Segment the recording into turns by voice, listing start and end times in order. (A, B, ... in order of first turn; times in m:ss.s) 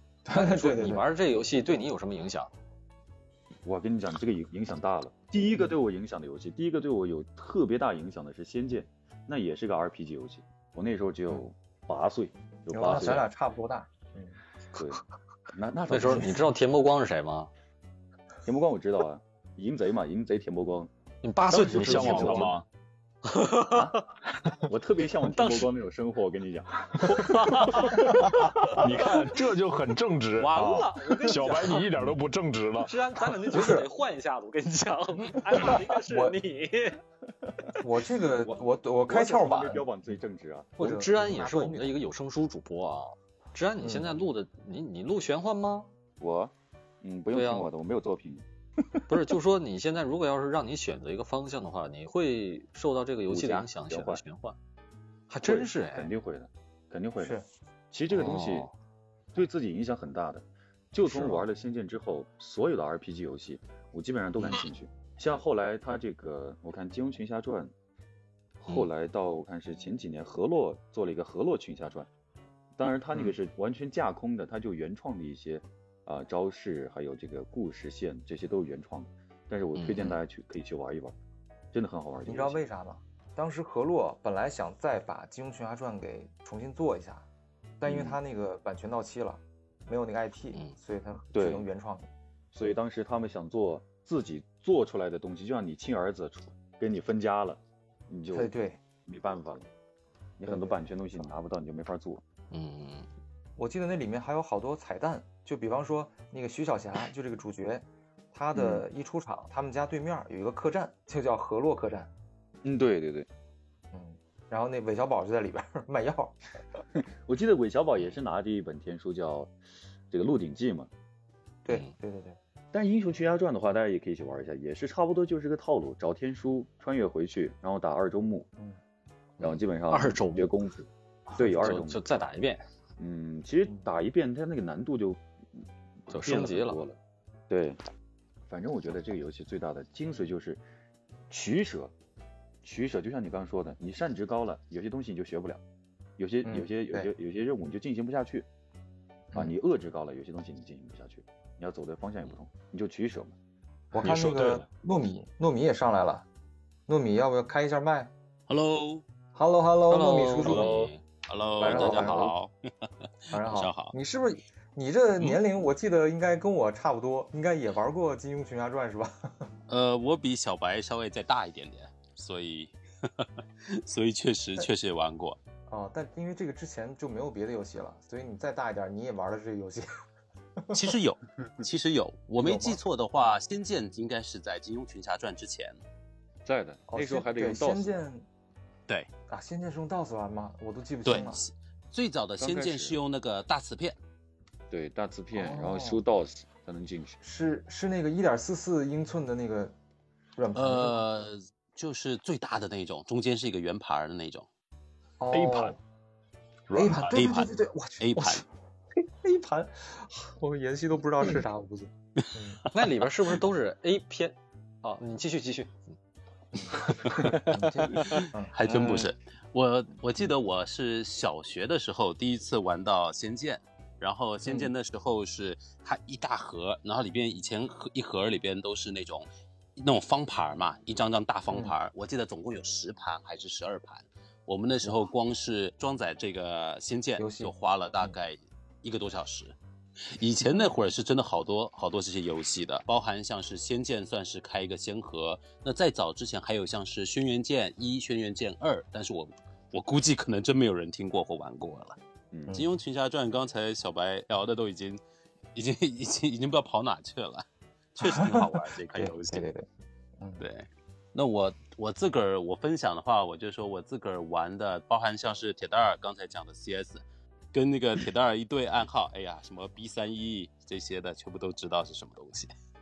0:00.2-0:01.1 A
0:00.3-0:02.5 B
0:03.6-0:13.3 C
0:12.7-0:14.4 A
0:14.7-0:15.0 C
0:15.5-0:16.5 C
0:15.9-0:17.5 B
0:18.4-0:20.9 C
0:21.2-0:22.5 B
0:21.5-0:22.6 C
0:21.5-0:22.6 D
0:23.3-0:24.0 B
0:23.7-0:24.0 C
0:24.6-0:27.1 C
0:25.2-0:25.7 B
0:27.0-0:29.3 B
0:27.2-0:33.0 D
0:30.4-0:32.0 B
0:32.8-0:37.0 B
0:33.5-0:33.9 A
0:36.0-0:36.4 A
0:37.8-0:39.8 A
0:38.5-0:40.7 C
0:40.8-0:41.9 A
0:40.8-0:45.9 B
0:43.8-0:44.2 A
0:46.2-0:48.4 C
0:47.3-0:47.7 B
0:49.1-0:54.6 B
0:53.3-0:54.2 C
0:55.3-0:56.1 B
0:55.4-0:57.4 C
0:57.9-0:58.7 C
0:58.1-0:58.7 B
0:59.3-1:07.7 C
1:01.1-1:01.4 A
1:08.6-1:12.1 C
1:12.8-1:21.1 C
1:19.7-1:20.2 B
1:21.7-1:22.6 C
1:22.2-1:27.2 A
1:27.8-1:32.1 A
1:27.9-1:28.2 C
1:31.3-1:31.7 C
1:32.5-1:38.5 C
1:38.3-1:38.8 A
1:39.0-1:39.7 C
1:40.4-1:42.2 C
1:40.4-1:41.3 A
1:42.5-1:43.1 B
1:43.6-1:52.1 A
1:48.5-1:48.8 C
1:52.6-1:53.3 C
1:53.9-1:56.8 A
1:57.0-1:59.5 C
2:00.1-2:00.9 C
2:01.6-2:02.4 A
2:02.7-2:08.5 C
2:09.4-2:10.6 B
2:09.4-2:12.2 C
2:11.4-2:12.6 B
2:13.0-2:17.0 C
2:16.1-2:16.8 B
2:17.5-2:17.8 C
2:18.5-2:20.6 C
2:21.3-2:21.9 C
2:22.6-2:25.6 C
2:26.2-2:28.5 C
2:26.4-2:27.1 A
2:29.3-2:33.3 C
2:33.9-2:36.2 A
2:34.0-2:34.6 D
2:36.9-2:38.1 A
2:38.5-2:39.0 E
2:39.3-2:40.9 A
2:39.9-2:41.0 B
2:40.4-2:40.7 E
2:41.3-2:43.9 E
2:41.6-2:42.3 A
2:41.6-2:42.3 C
2:43.3-2:49.4 A
2:49.7-2:55.4 E
2:55.7-2:59.8 A
3:00.7-3:05.8 E
3:02.4-3:02.8 A
3:06.4-3:08.0 C
3:06.9-3:08.2 A
3:09.3-3:11.4 A
3:11.0-3:14.0 E
3:12.4-3:13.0 C
3:14.7-3:17.2 C
3:15.3-3:16.0 A
3:17.2-3:19.7 A
3:20.4-3:21.0 A
3:20.5-3:24.5 E
3:25.2-3:25.8 A
3:25.3-3:25.8 D
3:26.7-3:27.1 D
3:26.7-3:28.4 A
3:27.0-3:28.4 E
3:29.0-3:32.6 A
3:32.7-3:35.9 B
3:36.6-3:39.1 A
3:36.8-3:37.4 E
3:37.9-3:59.5 E
3:44.4-3:44.7 A
3:57.2-3:58.1 A
4:00.1-4:12.0 E
4:00.4-4:00.7 A
4:12.3-4:12.6 C
4:12.5-4:15.0 E
4:15.5-4:19.5 E
4:18.0-4:19.6 A
4:20.2-4:20.4 A
4:20.4-4:32.5 E